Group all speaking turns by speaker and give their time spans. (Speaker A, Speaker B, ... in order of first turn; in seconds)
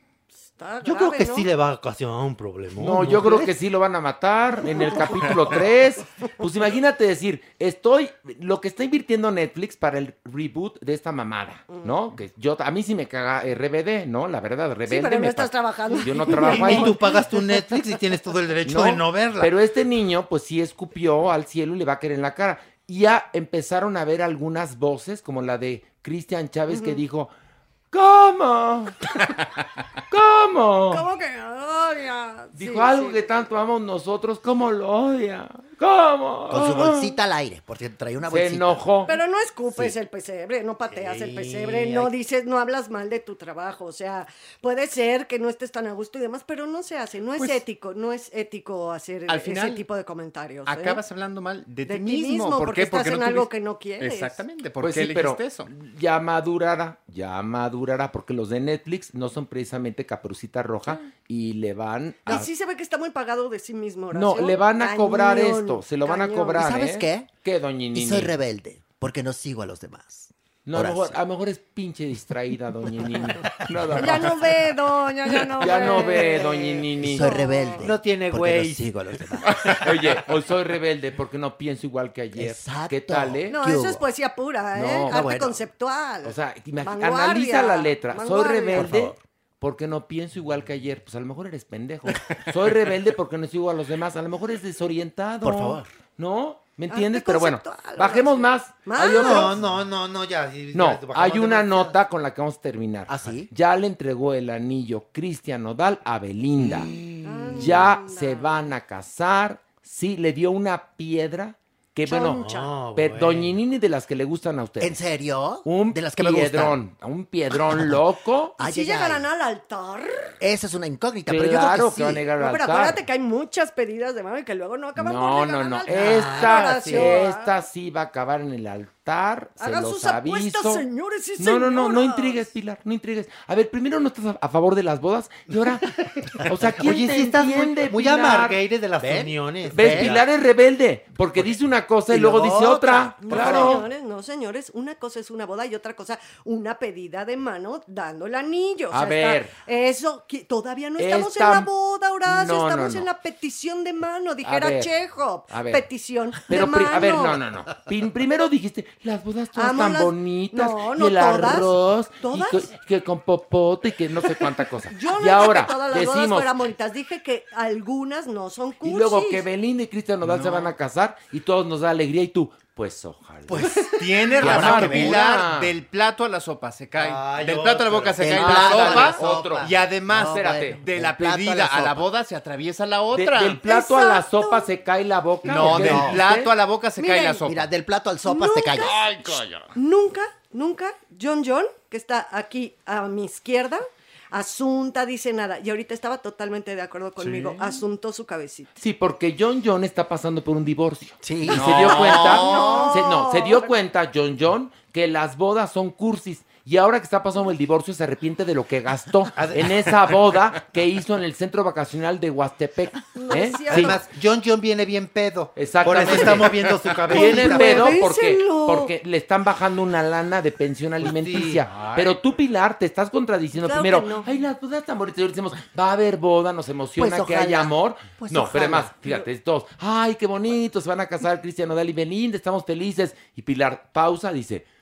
Speaker A: 0.6-1.5, 14.8-17.8, 26.7-27.0, 30.9-33.2, 39.0-51.0, 51.9-54.4, 62.2-66.6, 73.9-77.8, 83.5-88.9, 96.9-99.5, 107.2-108.5, 112.1-112.7, 118.6-120.3, 122.4-127.5, 129.6-132.5, 143.2-157.4, 159.6-162.7, 164.9-169.4, 183.6-184.7, 187.0-187.4, 188.2-189.1, 189.7-198.7, 201.6-203.7, 213.1-214.0, 217.1-218.9, 223.6-224.2
Speaker B: 0.8-3.5, 16.3-19.5, 40.9-42.1, 77.8-79.9, 99.1-102.0, 112.4-113.5, 125.9-127.2, 136.7-140.2, 173.6-175.1, 177.0-179.8, 209.3-210.1, 213.7-218.0, 221.0-221.6
Speaker C: 2.8-17.0, 18.6-27.3, 27.9-29.0, 30.1-31.0, 32.5-37.2, 38.3-39.1, 54.8-62.5, 64.1-68.3, 70.7-74.3, 75.6-77.2, 79.5-83.6, 84.7-85.3, 86.2-99.6, 100.7-106.9, 107.6-112.4, 112.9-115.0, 115.6-118.6, 121.3-123.0, 125.0-130.8, 131.4-138.6, 139.7-143.8, 148.9-149.5, 151.0-151.7, 152.2-153.1, 154.4-154.9, 155.5-155.8, 156.5-166.5, 168.8-173.8, 174.4-175.7, 178.3-180.8, 183.1-186.5, 188.8-189.7, 198.8-214.0, 215.6-234.7
Speaker D: 36.5-38.9, 66.5-67.3, 67.9-71.2, 76.0-76.4, 77.0-79.5, 82.3-84.0, 85.1-85.6, 88.8-89.1, 95.4-95.9, 103.1-103.5, 106.6-107.1, 114.8-116.8, 117.5-118.0, 118.6-119.2, 120.4-122.3, 139.0-140.2, 142.1-143.7, 173.5-173.8, 174.4-175.1, 178.2-182.1, 185.5-186.2, 187.4-189.0, 201.2-202.9, 227.0-228.9
Speaker E: 49.3-49.8, 50.6-55.7, 170.2-170.7, 174.0-183.6, 185.4-187.7